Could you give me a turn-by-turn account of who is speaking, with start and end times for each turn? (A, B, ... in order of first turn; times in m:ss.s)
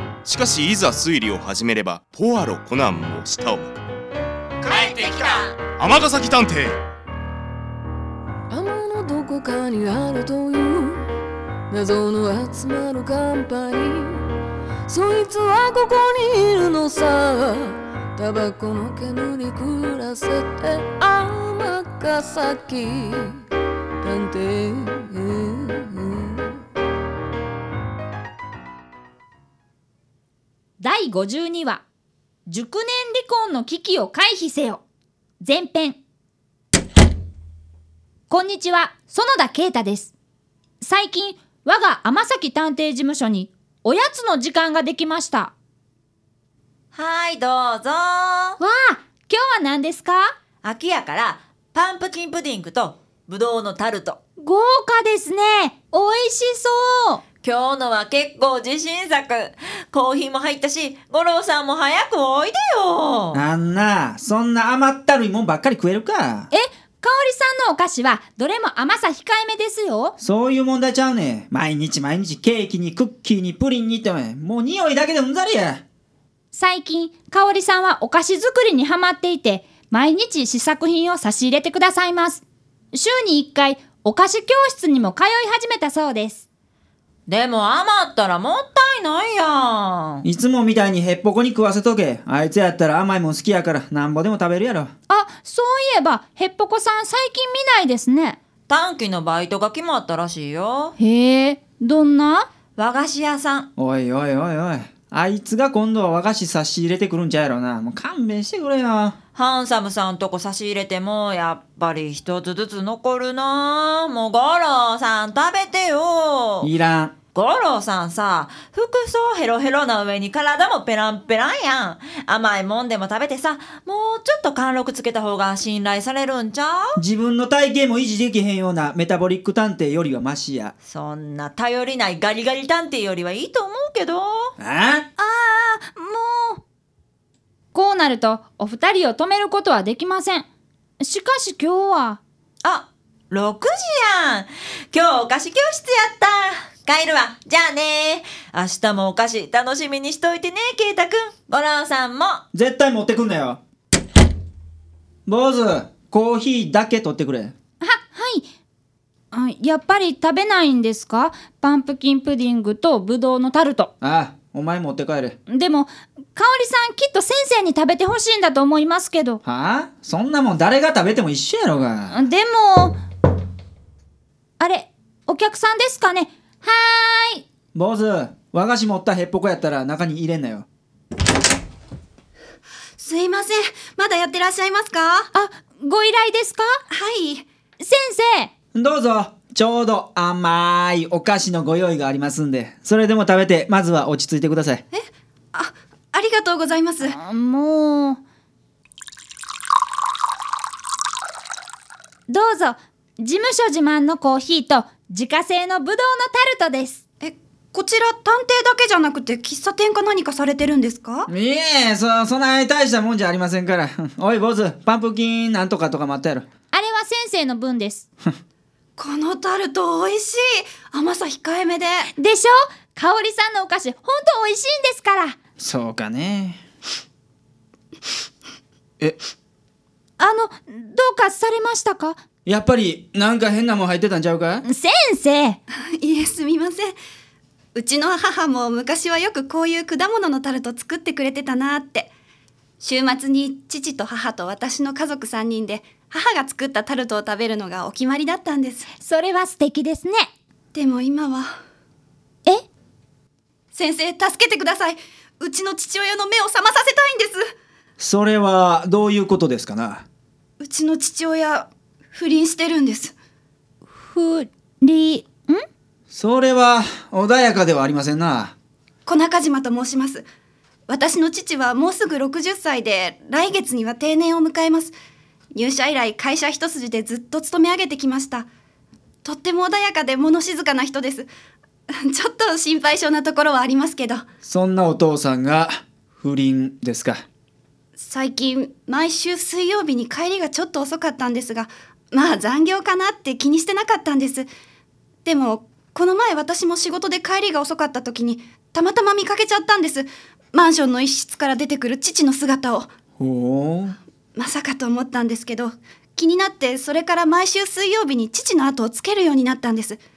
0:00.2-0:03.8 A
0:04.7-0:05.6 B
0:04.7-0:06.8 A
0:08.5-0:11.0 C
0:11.7-0:14.2 C
0:14.9-0:23.4 C
0:24.0-0:26.5 C
0:30.8-0:31.8 D
0:32.5-0:34.8 D
0:35.4-0:36.0 D
0:38.3-0:40.1 D
0:40.8-0:45.5 D
0:46.9-0:48.6 B
0:48.6-0:50.3 D
0:50.6-0:54.2 B
0:54.4-0:57.2 D
0:57.4-1:03.4 B
1:03.3-1:06.5 E
1:06.5-1:10.2 D
1:10.2-1:15.8 E
1:16.5-1:26.4 D
1:27.3-1:30.2 B
1:30.2-1:34.9 E
1:35.1-1:38.4 D
1:38.7-1:41.0 B
1:41.0-1:42.5 D
1:42.8-1:43.7 B
1:43.8-1:49.2 E
1:49.4-1:56.7 B
1:56.6-1:57.1 E
1:57.4-2:07.0 B
2:07.0-2:10.7 E
2:10.8-2:14.6 B
2:14.6-2:15.1 E
2:15.2-2:16.6 D
2:17.7-2:20.5 D
2:21.0-2:22.2 D
2:22.6-2:32.4 B
2:32.5-2:33.6 E
2:35.3-2:37.5 E
2:37.8-2:38.5 D
2:39.3-2:43.9 D
2:44.0-2:45.4 E
2:45.5-2:49.4 D
2:49.4-2:52.2 E
2:52.1-2:53.0 D
2:54.6-2:57.4 D
2:57.7-3:00.6 E
3:03.0-3:05.3 F
3:05.3-3:06.7 D
3:06.9-3:07.4 F
3:07.8-3:08.5 D
3:08.7-3:14.8 E
3:14.9-3:17.2 F
3:17.0-3:18.2 D
3:22.3-3:27.0 D
3:27.2-3:31.3 F
3:31.3-3:36.5 E
3:36.7-3:38.1 D
3:39.0-3:42.1 F
3:42.2-3:45.4 D
3:45.6-3:46.6 E
3:50.2-3:52.2 D
3:52.5-3:54.6 E
3:54.6-3:55.6 D
3:55.7-3:56.9 F
3:57.8-4:02.1 F
4:02.8-4:08.9 F
4:09.0-4:10.3 D
4:10.7-4:11.5 F
4:13.7-4:17.4 F
4:18.0-4:20.0 E
4:20.6-4:23.1 F
4:23.9-4:25.6 D
4:26.1-4:28.5 E
4:29.1-4:30.2 F
4:30.9-4:35.0 F
4:35.5-4:38.5 F
4:39.2-4:41.3 F
4:41.9-4:44.2 F
4:44.4-4:47.2 E
4:48.0-4:54.5 F
4:55.2-5:02.9 F
5:03.2-5:04.0 E
5:04.4-5:10.0 F